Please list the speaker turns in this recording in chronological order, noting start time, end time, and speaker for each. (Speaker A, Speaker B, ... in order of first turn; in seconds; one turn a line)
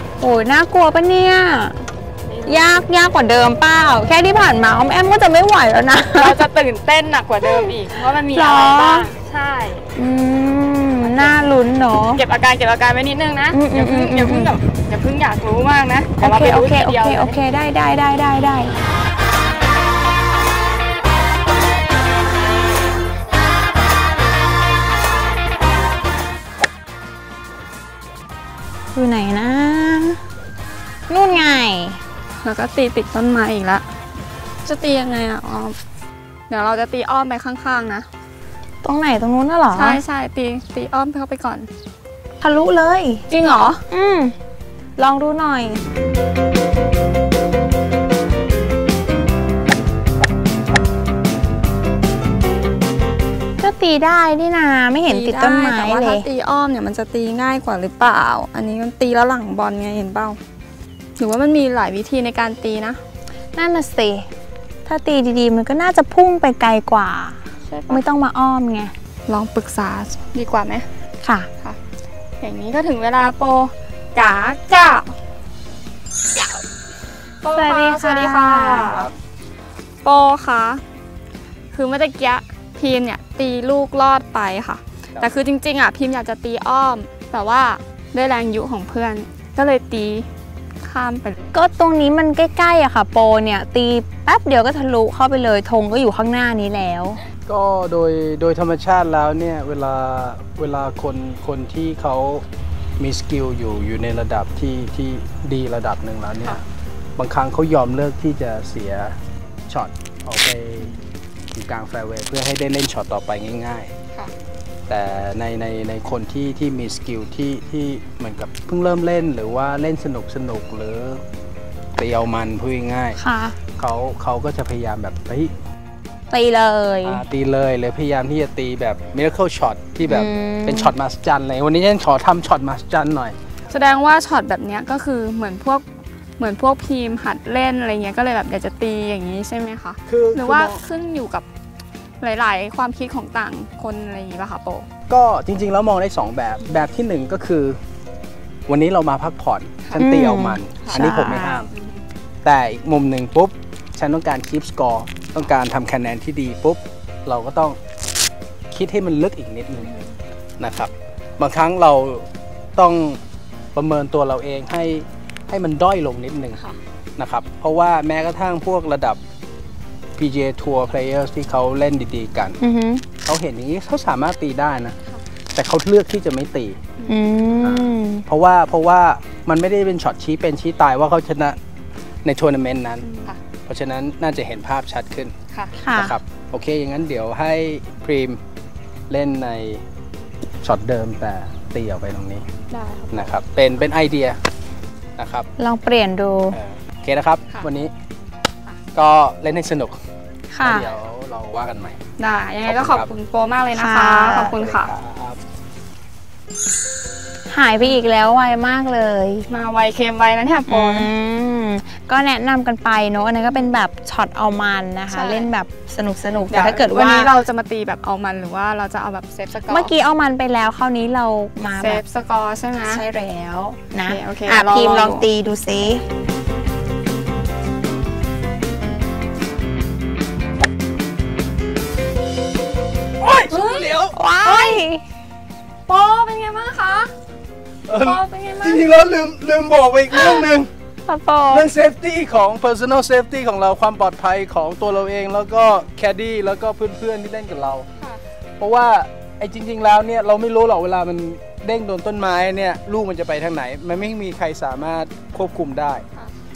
Speaker A: 0.2-1.9
Speaker B: 2.2-2.9
Speaker A: 2.5-6.4
Speaker B: 6.1-9.9
Speaker A: 7.4-9.1
Speaker A: 9.9-12.2
Speaker B: 11.0-11.4
Speaker B: 12.1-17.4
Speaker A: 13.5-14.5
Speaker A: 16.2-18.7
Speaker A: 28.9-30.2
Speaker A: 31.1-32.0
Speaker B: 32.4-33.8
Speaker B: 34.6-35.8
Speaker B: 36.5-38.1
Speaker A: 38.8-40.0
Speaker B: 39.7-41.7
Speaker A: 42.4-43.2
Speaker B: 43.3-43.8
Speaker A: 43.9-44.3
Speaker A: 45.0-45.8
Speaker A: 53.6-56.3
Speaker B: 55.1-60.4
Speaker B: 61.2-63.0
Speaker A: 63.5-64.3
Speaker A: 64.8-68.9
Speaker B: 67.7-68.0
Speaker B: 69.3-70.9
Speaker A: 71.2-71.5
Speaker B: 72.4-75.1
Speaker B: 77.4-79.1
Speaker A: 77.5-79.0
Speaker C: 78.8-79.1
Speaker B: 80.0-80.8
Speaker B: 81.7-90.3
Speaker B: 90.8-91.5
Speaker A: 91.5-97.2
Speaker C: 97.5-102.4
Speaker C: 103.0-106.6
Speaker C: 107.2-109.2
Speaker C: 109.7-110.9
Speaker B: 110.8-111.1
Speaker C: 111.5-113.9
Speaker C: 114.9-121.2
Speaker C: 122.0-123.2
Speaker A: 123.1-123.6
Speaker C: 123.8-125.5
Speaker A: 126.3-127.2
Speaker C: 127.0-133.3
Speaker A: 130.1-130.9
Speaker B: 133.7-135.8
Speaker B: 136.4-141.4
Speaker C: 140.1-140.8
Speaker B: 142.2-144.9
Speaker C: 145.1-147.8
Speaker C: 148.7-151.7
Speaker A: 149.9-151.6
Speaker B: 150.8-152.0
Speaker C: 152.4-157.8
Speaker C: 158.7-159.9
Speaker B: 159.8-160.1
Speaker C: 160.6-163.2
Speaker C: 163.7-166.6
Speaker C: 167.2-169.2
Speaker C: 170.2-172.6
Speaker A: 172.6-173.1
Speaker C: 173.2-174.9
Speaker C: 175.5-176.8
Speaker B: 177.0-177.6
Speaker A: 177.1-178.2
Speaker C: 177.6-181.6
Speaker C: 182.2-185.3
Speaker B: 183.0-183.4
Speaker A: 185.8-186.2
Speaker C: 185.9-188.4
Speaker C: 189.1-189.8
Speaker C: 190.6-192.4
Speaker B: 192.7-193.3
Speaker C: 193.1-194.4
Speaker C: 195.2-195.5
Speaker A: 195.6-196.6
Speaker C: 196.5-197.9
Speaker C: 198.9-199.9
Speaker A: 200.5-200.9
Speaker C: 200.6-202.0
Speaker B: 202.2-204.9
Speaker C: 202.7-203.1
Speaker A: 203.7-204.5
Speaker C: 204.3-205.4
Speaker A: 207.5-209.5
Speaker B: 209.5-211.1
Speaker A: 210.7-217.3
Speaker B: 215.1-215.5
Speaker B: 216.5-219.9
Speaker A: 219.7-222.0
Speaker B: 221.7-223.0
Speaker A: 222.8-226.0
Speaker B: 224.0-225.3
Speaker C: 233.2-234.2
Speaker B: 233.4-234.8
Speaker A: 234.1-235.0
Speaker B: 235.9-237.1
Speaker C: 237.9-240.7
Speaker B: 237.9-238.8
Speaker A: 241.1-241.7
Speaker C: 241.5-247.9
Speaker C: 248.6-256.0